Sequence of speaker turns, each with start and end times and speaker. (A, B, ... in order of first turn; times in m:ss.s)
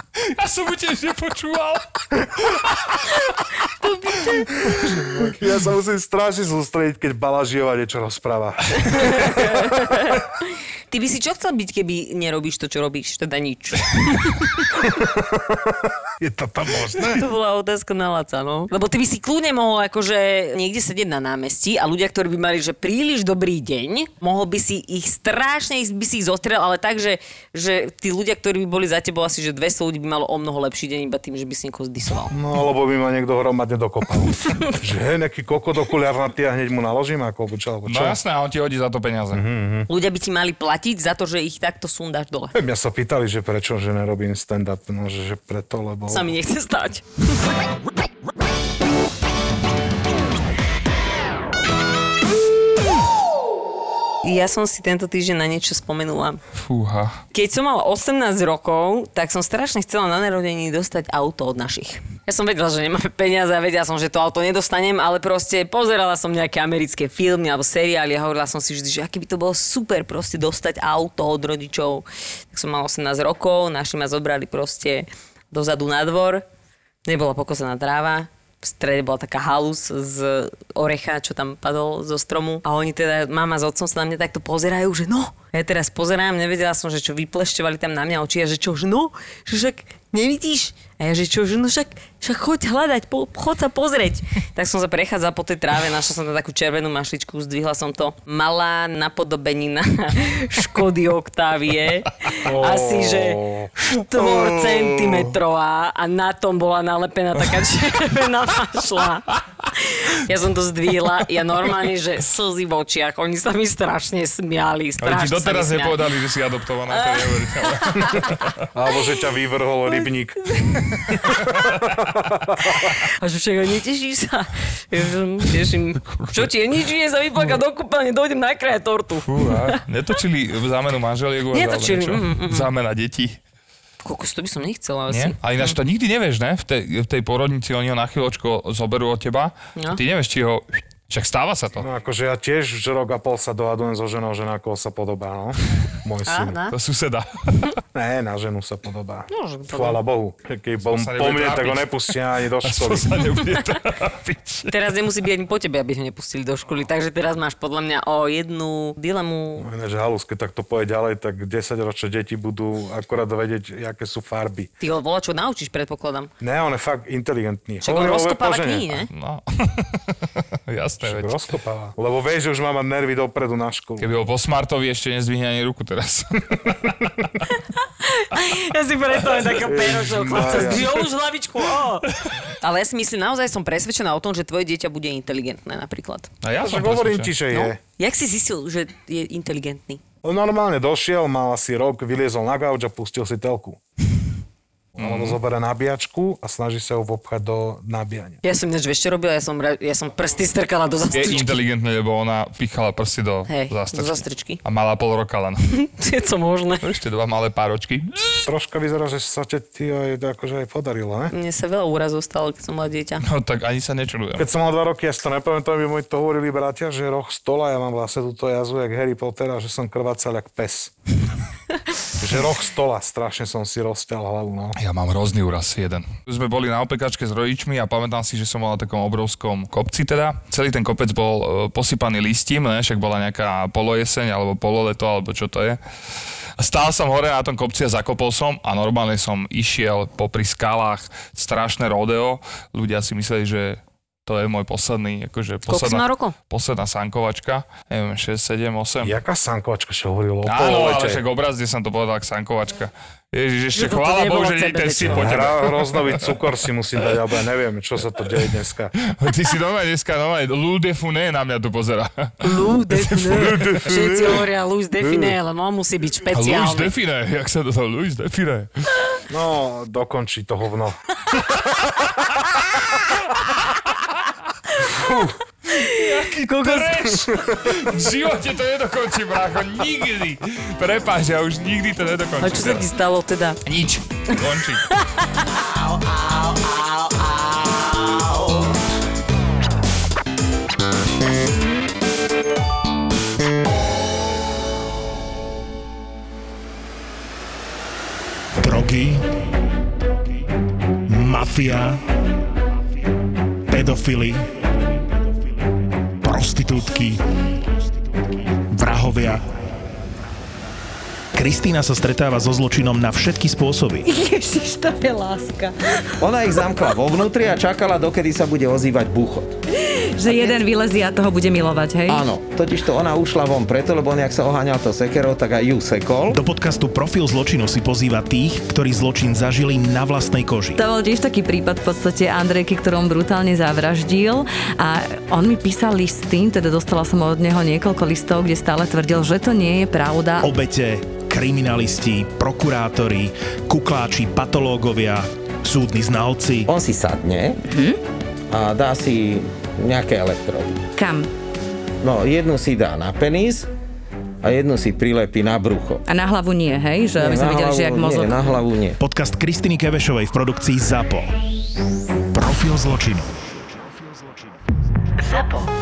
0:00.2-0:03.0 A
0:03.8-0:04.5 B
0:04.2-0:05.4 A
0:05.2-0:09.8 C
0:08.8-0:10.2 B
0:10.9-0:14.7 B
0:14.8-0:17.3 C
0:17.0-0:32.3 B
0:32.3-0:38.2 C
0:37.9-0:39.4 A
0:39.3-0:39.9 C
0:39.9-0:42.5 B
0:42.5-0:46.4 C
0:46.1-0:47.4 B
0:54.2-0:56.4 B
0:56.6-0:57.2 A
0:57.3-1:16.4 B
1:17.1-1:56.2 B
1:42.4-1:43.7 C
1:55.0-1:58.6 A
1:56.9-1:59.0 B
1:58.8-2:00.4 C
1:59.9-2:01.7 B
2:01.3-2:02.2 A
2:02.6-2:09.8 B
2:06.0-2:06.5 A
2:09.2-2:13.4 A
2:11.5-2:12.7 B
2:14.0-2:15.8 B
2:15.1-2:21.9 A
2:19.8-2:20.0 B
2:21.8-2:26.6 C
2:26.3-2:26.8 B
2:26.7-2:27.8 A
2:27.9-2:33.1 C
2:29.3-2:30.0 B
2:30.8-2:34.9 A
2:34.7-2:39.7 B
2:39.6-2:44.7 C
2:44.8-2:46.3 B
2:46.4-2:48.9 C
2:47.8-2:49.1 B
2:49.1-2:50.2 A
2:50.7-2:51.4 A
2:51.0-2:54.1 C
2:54.0-2:57.2 A
2:57.5-3:02.1 B
2:59.6-3:00.9 C
3:02.6-3:06.3 B
3:06.4-3:07.4 A
3:06.6-3:07.8 C
3:07.5-3:10.0 B
3:10.2-3:13.8 C
3:15.0-3:18.4 C
3:15.0-3:15.4 A
3:18.4-3:21.6 B
3:21.1-3:25.6 A
3:23.5-3:24.6 B
3:25.7-3:26.8 B
3:26.8-3:28.5 A
3:28.5-3:31.3 C
3:31.3-3:33.2 B
3:33.2-3:34.5 A
3:34.4-3:40.9 C
3:42.2-3:44.8 C
3:44.8-3:55.8 A
3:56.6-4:09.2 A
4:05.7-4:06.4 B
4:09.0-4:11.2 C
4:10.4-4:16.4 A
4:13.7-4:15.4 B
4:15.1-4:18.9 C
4:19.0-4:23.9 A
4:22.4-4:26.9 B
4:23.9-4:24.4 C
4:25.0-4:25.4 C
4:26.3-4:28.9 A
4:29.3-4:31.0 C
4:35.7-4:37.1 B
4:35.9-4:42.9 A
4:42.4-4:43.6 B
4:43.6-4:44.9 A
4:44.8-4:45.4 B
4:58.6-4:59.3 D
5:01.1-5:02.0 D
5:03.7-5:04.4 D
5:06.2-5:07.2 D
5:08.5-5:09.4 D
5:11.4-5:14.2 D
5:14.2-5:15.5 E
5:16.2-5:19.5 F
5:19.8-5:22.3 E
5:22.1-5:26.4 F
5:26.3-5:30.8 D
5:30.8-5:40.5 E
5:40.4-5:46.7 D
5:46.7-5:47.6 F
5:47.7-5:48.0 E
5:48.5-5:50.8 F
5:51.0-5:51.3 E
5:52.0-5:53.7 F
5:54.4-5:56.0 F
5:56.1-5:58.6 E
5:57.2-5:59.0 F
5:59.0-6:01.3 D
6:02.3-6:03.5 D